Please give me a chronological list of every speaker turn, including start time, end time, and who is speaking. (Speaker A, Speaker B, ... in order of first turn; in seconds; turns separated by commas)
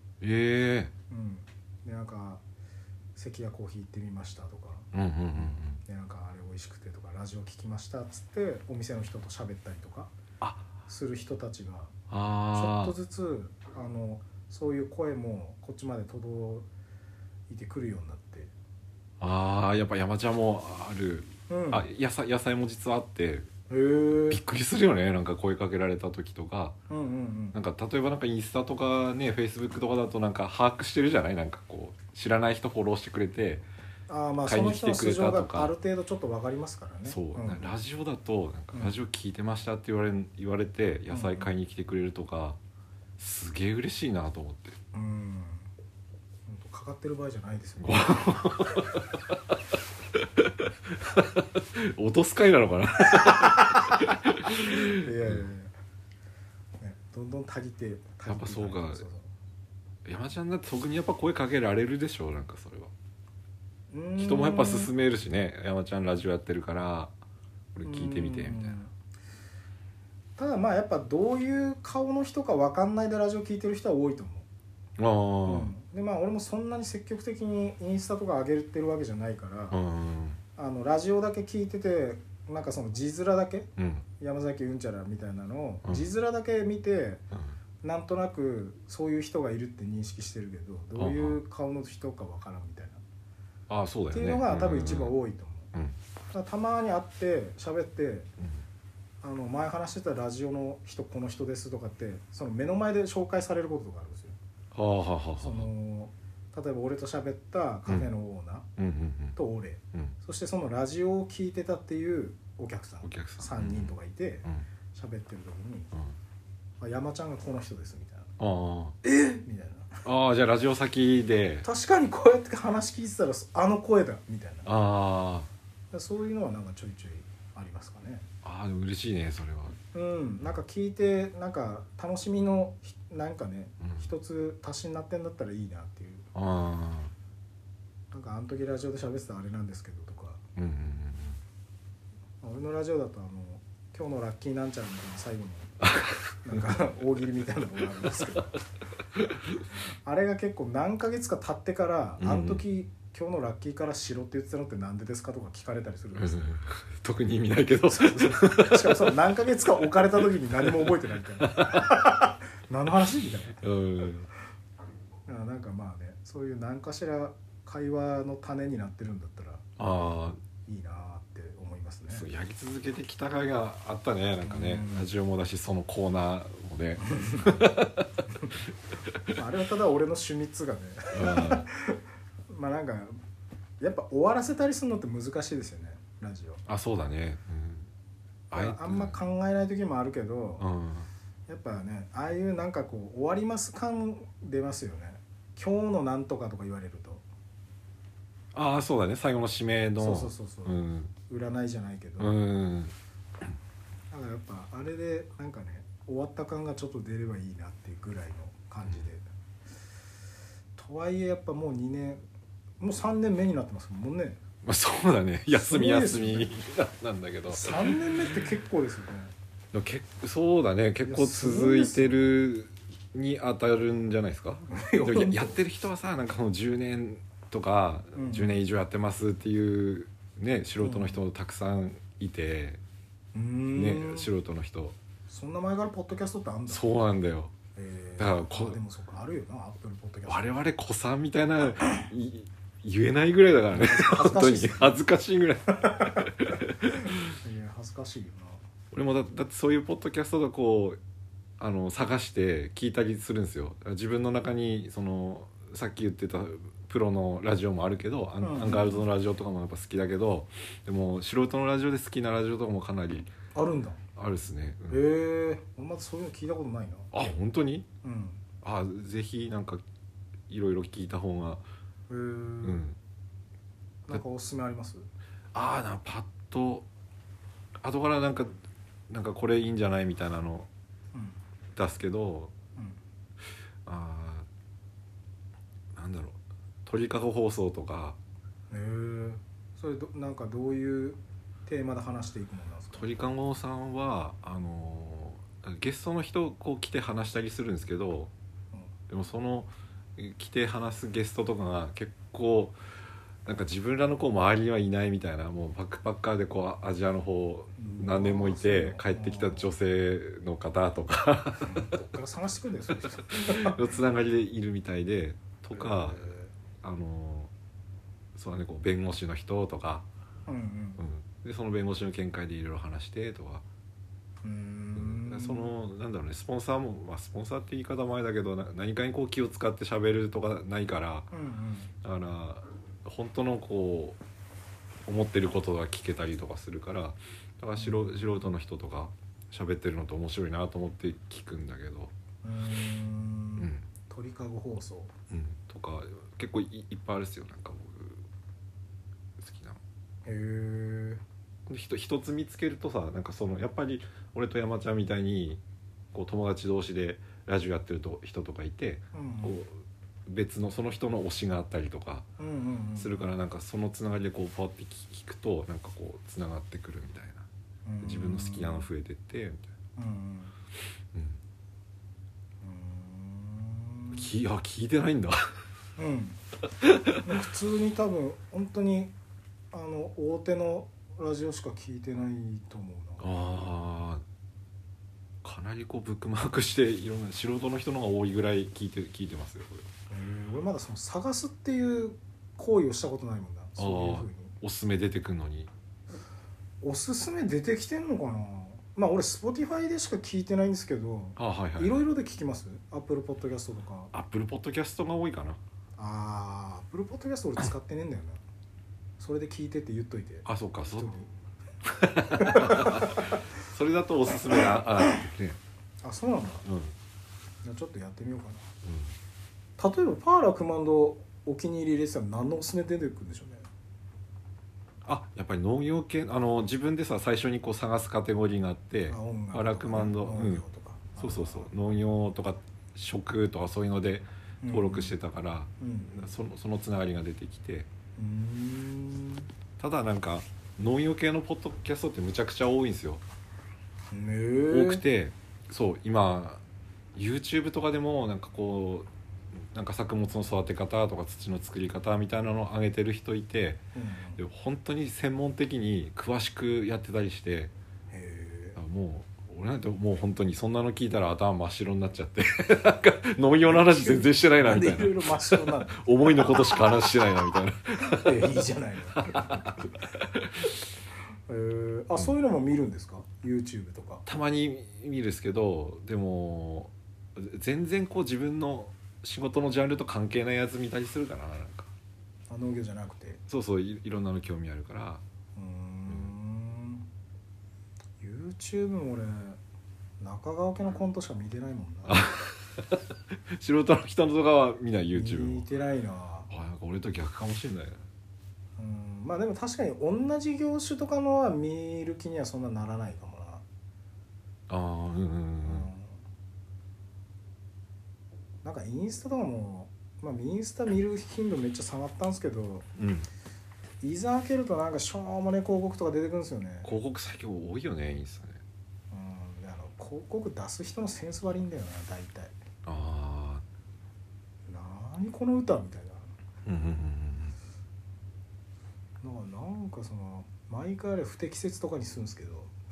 Speaker A: 0.2-0.9, Speaker B: 1.1-2.4, Speaker B: 3.2-4.9, Speaker A: 4.9-5.8, Speaker B: 5.4-10.1, Speaker A: 10.4-10.7, Speaker B: 10.9-11.9, Speaker A: 12.1-12.9, Speaker B: 12.5-16.7, Speaker B: 17.5-18.5, Speaker A: 19.2-23.5, Speaker B: 21.5-21.9, Speaker B: 23.7-24.4, Speaker A: 24.3-26.8, Speaker B: 26.9-27.6, Speaker A: 27.5-33.6, Speaker B: 34.1-37.7, Speaker A: 34.5-35.7, Speaker A: 37.1-42.6, Speaker B: 41.1-41.5, Speaker A: 43.2-44.8, Speaker B: 44.9-45.7, Speaker B: 46.5-48.4, Speaker A: 47.8-49.6, Speaker A: 50.1-55.5, Speaker B: 53.1-55.7, Speaker B: 56.8-59.3, Speaker A: 58.3-59.0, Speaker A: 60.0-62.9, Speaker B: 63.9-64.9, Speaker A: 64.2-67.1, Speaker A: 67.7-68.8, Speaker B: 67.8-68.9, Speaker B: 70.4-74.5, Speaker A: 75.0-75.7, Speaker B: 75.5-79.8, Speaker A: 79.7-80.4, Speaker B: 80.6-87.2, Speaker A: 83.8-84.0, Speaker B: 87.8-93.0, Speaker A: 91.0-91.4, Speaker A: 93.7-95.2, Speaker B: 94.1-95.7, Speaker B: 96.3-98.3, Speaker B: 99.2-104.4, Speaker A: 104.7-105.7, Speaker B: 105.4-108.7, Speaker A: 108.8-109.4, Speaker B: 109.4-115.9, Speaker A: 113.0-114.7, Speaker B: 116.8-118.3, Speaker A: 118.4-119.0, Speaker B: 119.0-120.0, Speaker A: 120.0-121.7, Speaker B: 121.6-124.7, Speaker A: 124.7-125.5, Speaker B: 125.9-128.3, Speaker A: 128.4-129.8, Speaker B: 129.9-136.3, Speaker A: 133.8-134.1, Speaker A: 136.3-137.1, Speaker B: 138.1-140.4, Speaker A: 140.6-141.4, Speaker B: 142.4-145.8, Speaker A: 145.8-146.6, Speaker B: 146.4-148.6, Speaker A: 149.1-149.6, Speaker B: 150.1-156.4, Speaker A: 152.2-152.6, Speaker A: 156.2-159.1, Speaker B: 157.9-163.6, Speaker A: 160.2-161.9, Speaker A: 163.6-164.3, Speaker B: 165.3-169.7, Speaker A: 169.8-170.4, Speaker B: 170.7-172.3, Speaker A: 172.1-178.3, Speaker B: 174.4-175.1, Speaker B: 177.0-177.5, Speaker B: 179.3-183.2, Speaker A: 181.1-181.7, Speaker B: 183.8-186.6, Speaker A: 186.7-187.9, Speaker A: 188.5-189.2, Speaker B: 188.5-190.7, Speaker A: 190.6-191.1, Speaker B: 191.5-197.2, Speaker A: 198.5-201.1, Speaker B: 200.0-202.4, Speaker A: 202.2-202.9, Speaker B: 204.1-209.2, Speaker B: 210.8-212.2, Speaker B: 212.8-214.4, Speaker A: 214.6-218.3, Speaker B: 215.5-216.5, Speaker B: 217.5-219.3, Speaker A: 219.7-232.8, Speaker B: 221.0-222.4, Speaker B: 224.7-225.6, Speaker B: 228.2-228.6, Speaker B: 230.8-231.2, Speaker B: 233.3-234.3, Speaker A: 233.7-235.0, Speaker B: 235.3-236.8, Speaker A: 236.7-237.5, Speaker B: 237.8-240.6, Speaker A: 238.2-238.8, Speaker A: 240.3-247.3, Speaker B: 243.7-245.0, Speaker B: 245.7-246.3, Speaker B: 246.9-248.6, Speaker A: 248.9-251.0, Speaker A: 251.6-263.3, Speaker B: 258.4-259.1, Speaker B: 263.6-264.0, Speaker A: 264.2-265.0, Speaker B: 264.9-267.1, Speaker A: 267.1-267.9, Speaker B: 268.0-268.4, Speaker A: 268.6-269.8, Speaker A: 270.5-271.6, Speaker B: 272.1-272.8, Speaker A: 272.6-273.0, Speaker B: 274.1-275.1, Speaker A: 275.5-276.9, Speaker A: 277.8-278.5, Speaker A: 279.1-280.7, Speaker B: 281.1-281.4, Speaker A: 281.8-282.5, Speaker A: 283.9-284.5, Speaker A: 285.9-288.2, Speaker B: 288.7-293.1, Speaker A: 292.9-298.3, Speaker A: 299.1-302.8, Speaker A: 303.4-312.0, Speaker B: 307.8-309.7, Speaker B: 311.6-313.8, Speaker A: 313.2-317.5, Speaker B: 315.7-316.5, Speaker A: 318.4-320.1, Speaker B: 320.5-321.1, Speaker A: 321.0-323.6, Speaker B: 324.4-325.8, Speaker A: 325.0-331.3, Speaker B: 331.3-331.9, Speaker A: 332.0-334.2, Speaker A: 335.1-342.1, Speaker B: 337.8-338.4, Speaker B: 342.4-345.1, Speaker A: 343.6-343.8, Speaker A: 345.3-348.2, Speaker A: 349.4-349.8, Speaker B: 350.2-351.2, Speaker A: 351.7-355.6, Speaker A: 356.1-359.7, Speaker B: 359.1-359.6, Speaker A: 360.3-362.3, Speaker B: 362.4-363.3, Speaker A: 363.0-367.5, Speaker B: 367.9-368.9, Speaker A: 368.0-369.7, Speaker B: 370.0-370.6, Speaker A: 371.1-371.4, Speaker B: 372.6-374.3, Speaker A: 374.1-375.6, Speaker B: 376.0-376.4, Speaker A: 376.8-377.4, Speaker B: 377.2-379.1, Speaker B: 379.7-383.6, Speaker A: 383.2-384.2, Speaker A: 385.4-389.9, Speaker B: 390.1-394.6, Speaker A: 393.8-395.7, Speaker B: 396.8-404.1, Speaker A: 401.4-402.1, Speaker A: 404.1-405.6, Speaker B: 406.0-408.4, Speaker B: 409.2-411.3, Speaker A: 410.4-411.1, Speaker A: 411.9-415.6, Speaker B: 412.3-413.4, Speaker B: 416.0-416.7, Speaker A: 416.6-416.9, Speaker B: 417.6-418.7, Speaker A: 418.8-419.1, Speaker B: 419.8-423.7, Speaker A: 425.1-430.6, Speaker B: 429.1-431.7, Speaker A: 431.2-437.9, Speaker B: 434.6-435.1, Speaker B: 435.8-436.2, Speaker B: 438.2-439.5, Speaker A: 439.8-443.2, Speaker B: 444.1-445.0, Speaker A: 444.7-446.6, Speaker A: 447.1-449.1, Speaker A: 449.6-453.8, Speaker B: 453.9-454.4, Speaker A: 454.4-457.7, Speaker B: 458.1-458.8, Speaker A: 458.8-468.5, Speaker B: 463.7-467.1, Speaker B: 468.0-469.9, Speaker A: 469.1-470.7, Speaker B: 471.5-474.2, Speaker A: 474.3-481.9, Speaker B: 482.5-483.4, Speaker A: 483.5-485.2, Speaker B: 485.6-487.1, Speaker B: 488.2-489.6, Speaker B: 490.2-492.3, Speaker A: 492.1-495.6, Speaker B: 495.1-496.5, Speaker A: 496.5-498.0, Speaker B: 498.8-503.6, Speaker A: 504.7-505.9, Speaker B: 505.6-506.2, Speaker B: 508.6-512.9, Speaker A: 513.0-513.3, Speaker B: 514.0-516.9, Speaker A: 516.8-518.6, Speaker B: 519.1-522.5, Speaker A: 522.9-523.6, Speaker B: 524.7-526.3, Speaker A: 526.6-527.5, Speaker B: 529.2-532.7